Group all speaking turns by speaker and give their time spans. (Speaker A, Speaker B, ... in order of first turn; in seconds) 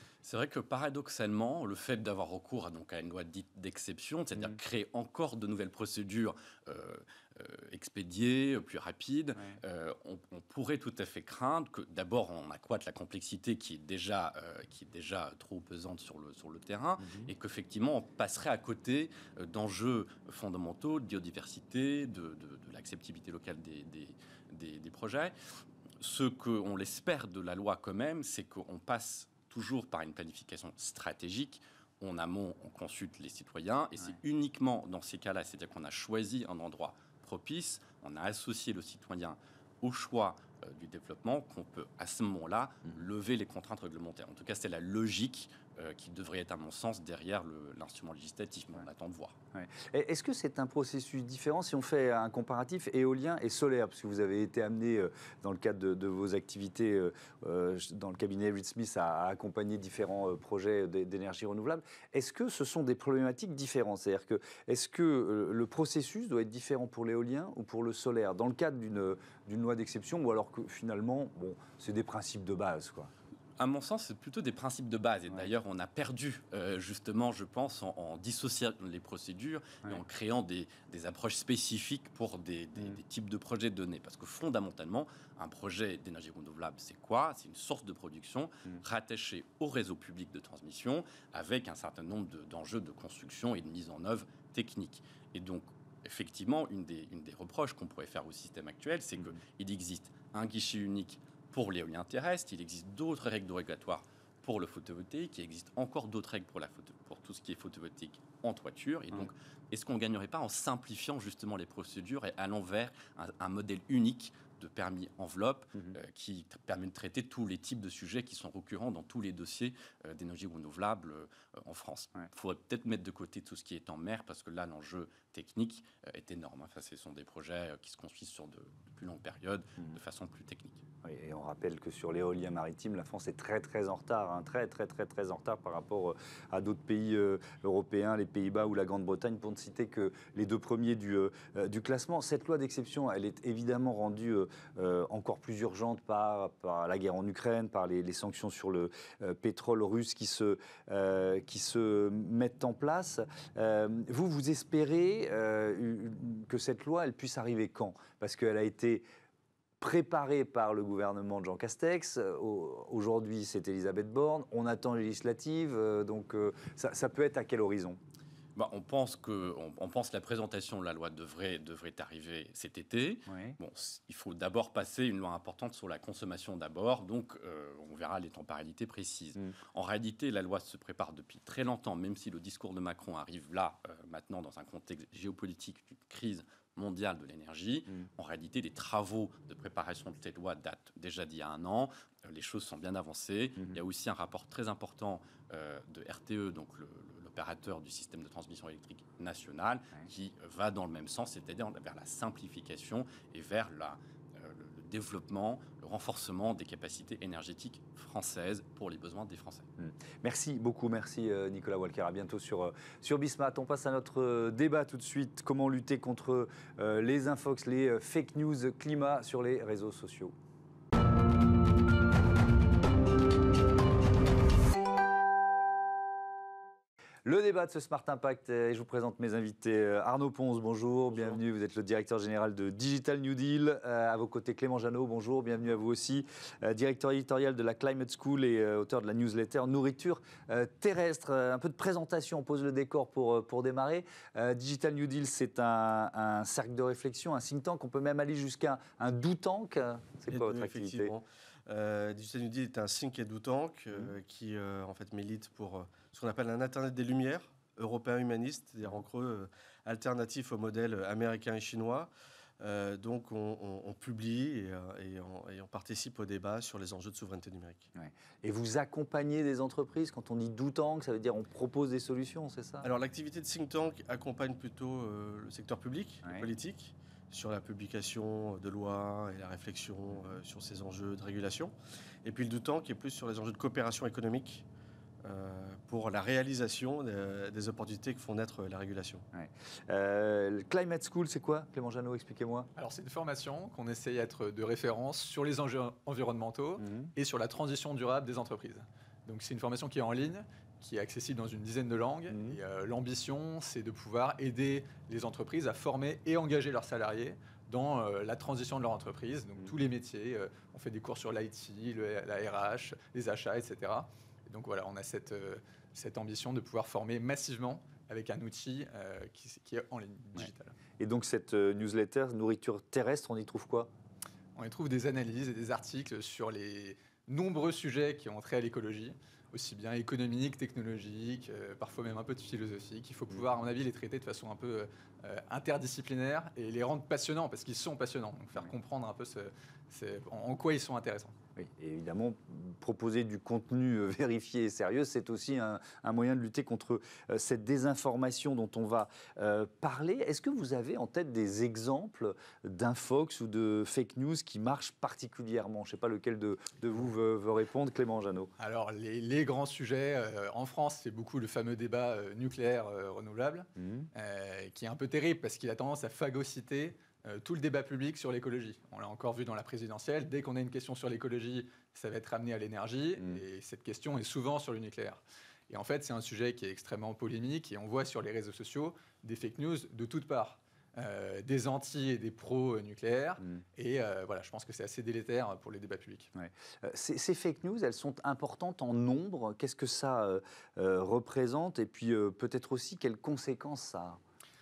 Speaker A: 0.2-25.3, 26.0-49.4, 73.6-130.8, 168.6-209.7
Speaker B: 17.0-17.3, 49.5-73.1, 131.0-159.0, 159.8-168.0, 173.3-173.6, 209.8-220.3, 227.2-251.1, 267.9-272.9, 276.2-276.5, 289.3-292.7, 296.8-297.1, 302.3-302.6, 320.4-323.9, 341.6-358.5, 363.8-364.1, 386.4-394.2
Speaker C: 250.3-267.9, 272.8-281.7, 282.2-284.7, 285.2-289.2
Speaker D: 292.8-320.7, 324.6-341.4, 358.6-386.3